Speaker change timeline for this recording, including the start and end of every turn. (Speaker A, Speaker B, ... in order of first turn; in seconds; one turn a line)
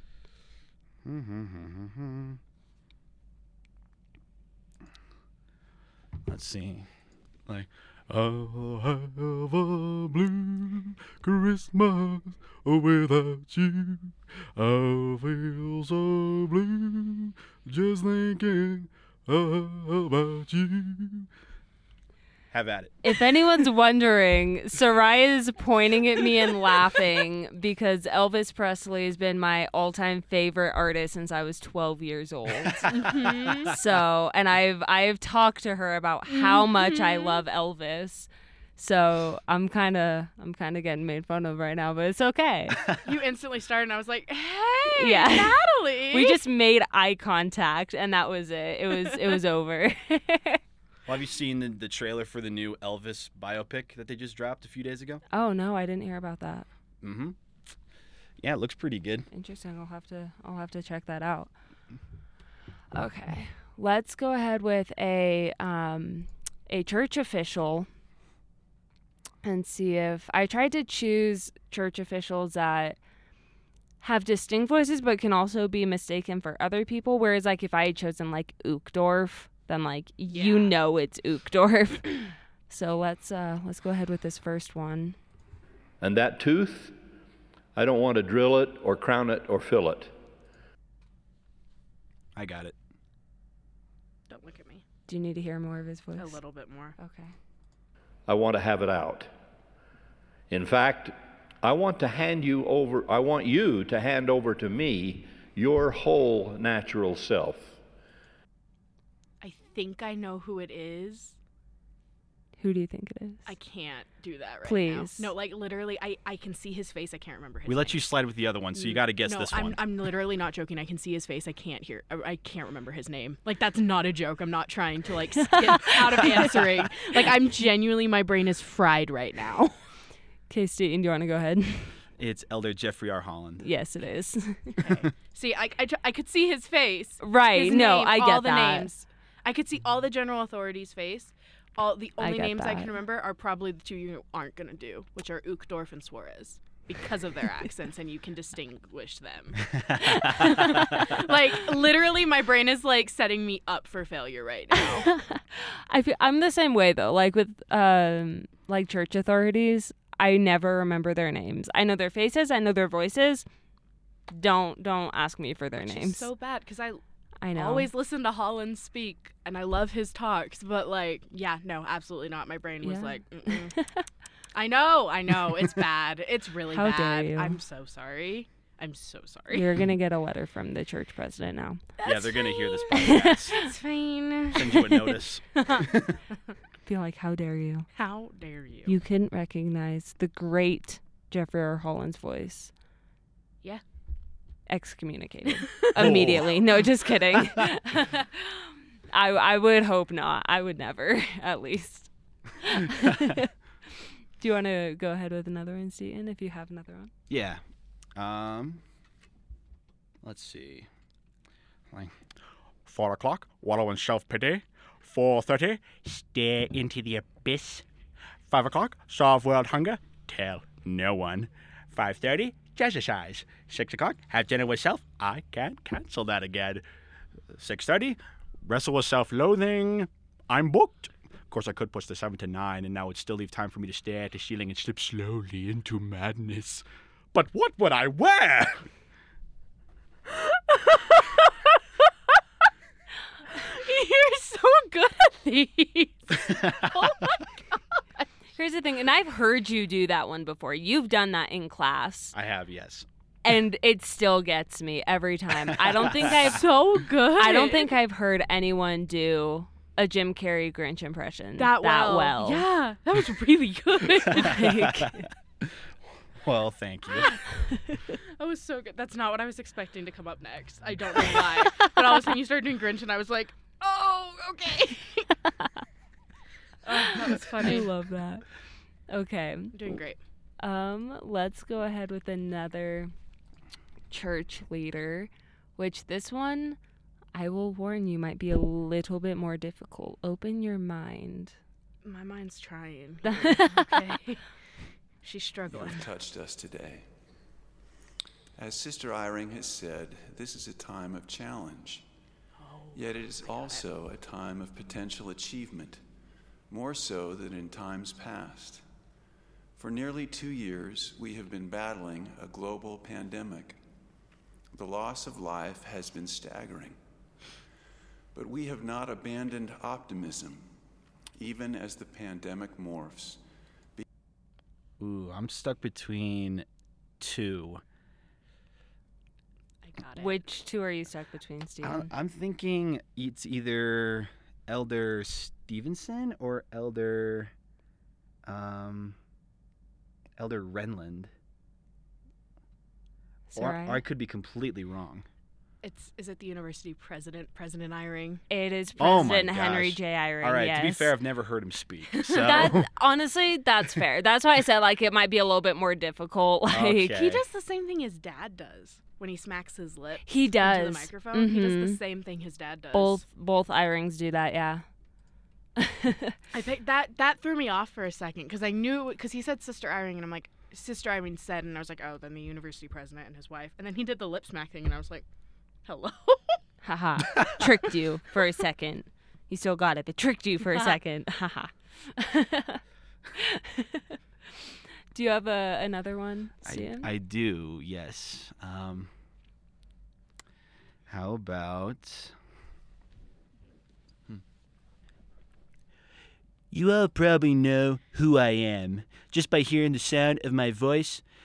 Speaker A: 1.0-2.4
Speaker A: 6.2-6.9
Speaker A: 7.5-21.3
Speaker A: 22.5-23.0
Speaker B: 23.0-42.8
Speaker C: 32.9-33.7
Speaker C: 36.3-37.4
Speaker C: 43.0-46.4
Speaker B: 45.0-45.6
Speaker B: 46.1-50.6
Speaker A: 51.1-55.2
Speaker B: 55.3-56.7
Speaker A: 57.0-57.4
Speaker A: 58.4-59.3
Speaker B: 59.3-61.5
Speaker B: 62.9-67.9
Speaker B: 69.4-73.0
Speaker B: 74.0-85.2
Speaker C: 80.3-80.8
Speaker D: 86.0-87.0
Speaker D: 87.8-90.1
Speaker A: 92.4-92.8
Speaker C: 94.3-94.8
Speaker B: 95.1-96.4
Speaker C: 96.2-97.0
Speaker B: 97.0-97.3
Speaker D: 98.3-99.3
Speaker D: 100.5-107.8
Speaker C: 109.4-111.4
Speaker B: 112.6-113.5
Speaker C: 113.5-118.1
Speaker B: 114.6-115.3
Speaker A: 117.7-119.9
Speaker C: 118.7-129.8
Speaker B: 125.7-126.5
Speaker B: 130.5-132.0
Speaker A: 132.2-133.6
Speaker B: 133.6-134.8
Speaker C: 134.8-155.1
Speaker B: 137.2-138.9
Speaker B: 142.2-142.9
Speaker A: 149.8-150.6
Speaker B: 150.2-151.0
Speaker B: 154.8-163.4
Speaker B: 164.3-166.3
Speaker C: 165.8-167.0
Speaker B: 167.4-167.9
Speaker C: 167.5-173.8
Speaker B: 172.8-174.1
Speaker C: 174.6-179.7
Speaker B: 176.7-177.6
Speaker B: 179.5-181.8
Speaker C: 182.0-184.8
Speaker A: 182.0-183.6
Speaker B: 183.0-183.6
Speaker A: 184.5-186.2
Speaker B: 186.9-187.9
Speaker C: 187.9-189.0
Speaker B: 188.9-192.7
Speaker B: 194.7-198.5
Speaker A: 196.0-196.6
Speaker B: 199.1-202.1
Speaker B: 202.6-203.5
Speaker B: 204.4-207.1
Speaker A: 207.3-207.6
Speaker A: 208.2-208.8
Speaker A: 210.2-210.9
Speaker A: 211.9-212.2
Speaker A: 212.9-217.8
Speaker A: 218.5-226.8
Speaker A: 227.5-238.9
Speaker C: 240.7-241.5
Speaker C: 243.5-247.8
Speaker A: 246.4-247.1
Speaker B: 248.6-252.3
Speaker A: 252.3-253.1
Speaker B: 253.4-256.6
Speaker A: 255.8-256.3
Speaker C: 256.3-257.9
Speaker B: 257.4-262.6
Speaker C: 261.6-264.6
Speaker B: 264.3-265.3
Speaker A: 264.6-265.1
Speaker A: 266.4-267.3
Speaker B: 267.7-268.0
Speaker C: 268.4-275.3
Speaker C: 276.9-277.9
Speaker B: 276.9-278.4
Speaker B: 279.1-279.9
Speaker C: 279.7-280.2
Speaker B: 280.6-283.1
Speaker B: 284.1-286.8
Speaker B: 287.4-291.6
Speaker C: 292.0-294.4
Speaker B: 293.3-293.9
Speaker C: 295.2-296.1
Speaker E: 295.7-297.1
Speaker E: 298.6-302.1
Speaker C: 302.6-303.9
Speaker E: 302.9-306.0
Speaker E: 306.7-308.8
Speaker E: 309.8-313.8
Speaker E: 314.7-317.0
Speaker E: 318.3-320.6
Speaker E: 321.4-323.4
Speaker A: 325.0-326.6
Speaker A: 327.2-327.8
Speaker C: 329.9-330.4
Speaker B: 330.1-332.1
Speaker A: 331.8-337.5
Speaker A: 338.4-339.2
Speaker A: 340.4-341.3
Speaker B: 343.5-344.0
Speaker A: 343.6-345.2
Speaker C: 345.8-348.4
Speaker B: 348.5-351.1
Speaker A: 349.0-352.9
Speaker B: 352.4-357.1
Speaker A: 356.7-357.4
Speaker C: 357.1-363.2
Speaker B: 360.2-362.0
Speaker B: 362.9-364.8
Speaker B: 365.8-366.4
Speaker C: 366.5-375.2
Speaker C: 375.9-376.6
Speaker B: 376.8-382.8
Speaker B: 383.4-384.2
Speaker B: 385.1-387.1
Speaker A: 386.6-389.1
Speaker A: 391.1-392.4
Speaker A: 396.7-401.2